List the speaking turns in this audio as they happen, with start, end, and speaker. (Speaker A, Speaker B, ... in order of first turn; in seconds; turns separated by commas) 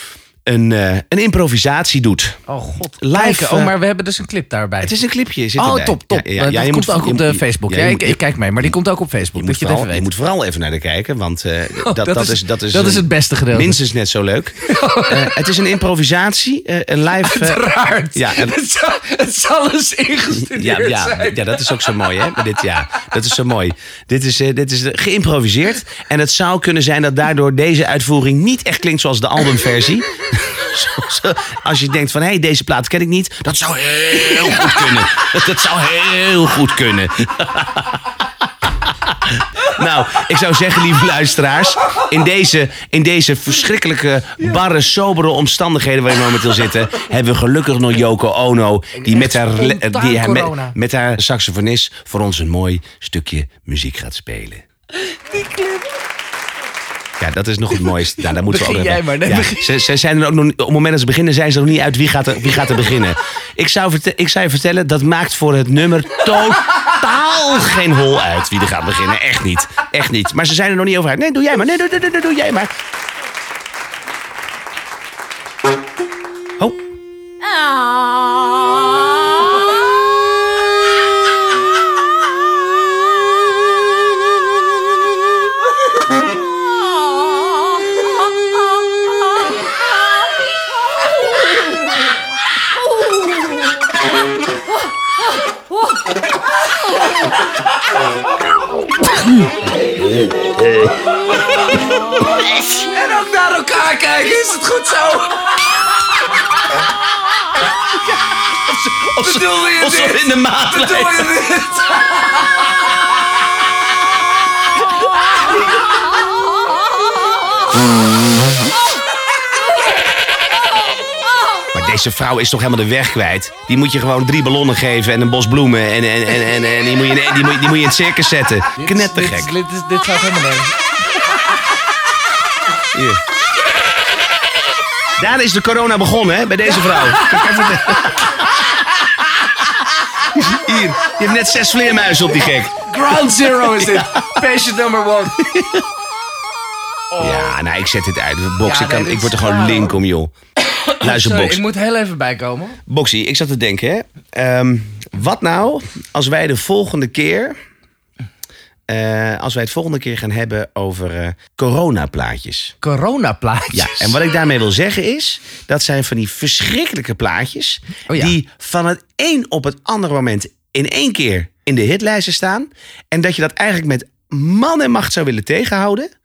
Speaker A: 0.5-2.4, Speaker B: 2.5-5.0, Speaker A: 3.0-3.7, Speaker A: 4.8-8.8, Speaker B: 5.6-10.1, Speaker A: 9.3-17.6, Speaker B: 11.8-13.8, Speaker B: 14.6-15.4, Speaker B: 17.2-23.2, Speaker A: 18.1-18.5, Speaker A: 20.4-38.0, Speaker B: 34.4-34.8, Speaker A: 39.1-54.6, Speaker B: 49.0-50.8, Speaker B: 54.9-56.0, Speaker A: 57.2-72.7, Speaker B: 57.9-59.8, Speaker B: 101.3-105.8, Speaker A: 108.5-111.3, Speaker B: 109.2-112.7, Speaker A: 121.7-129.5, Speaker B: 128.8-131.3, Speaker A: 132.9-133.2, Speaker A: 135.2-138.5, Speaker B: 136.7-138.2, Speaker A: 140.3-142.9, Speaker B: 142.8-145.4, Speaker A: 143.7-144.4, Speaker A: 145.4-145.8, Speaker B: 147.1-147.5, Speaker A: 147.2-150.3, Speaker B: 148.6-150.0, Speaker B: 150.6-152.8, Speaker A: 151.0-151.6, Speaker A: 152.9-157.6, Speaker A: 158.9-162.8, Speaker B: 162.8-164.2, Speaker A: 163.7-176.1, Speaker B: 168.1-168.4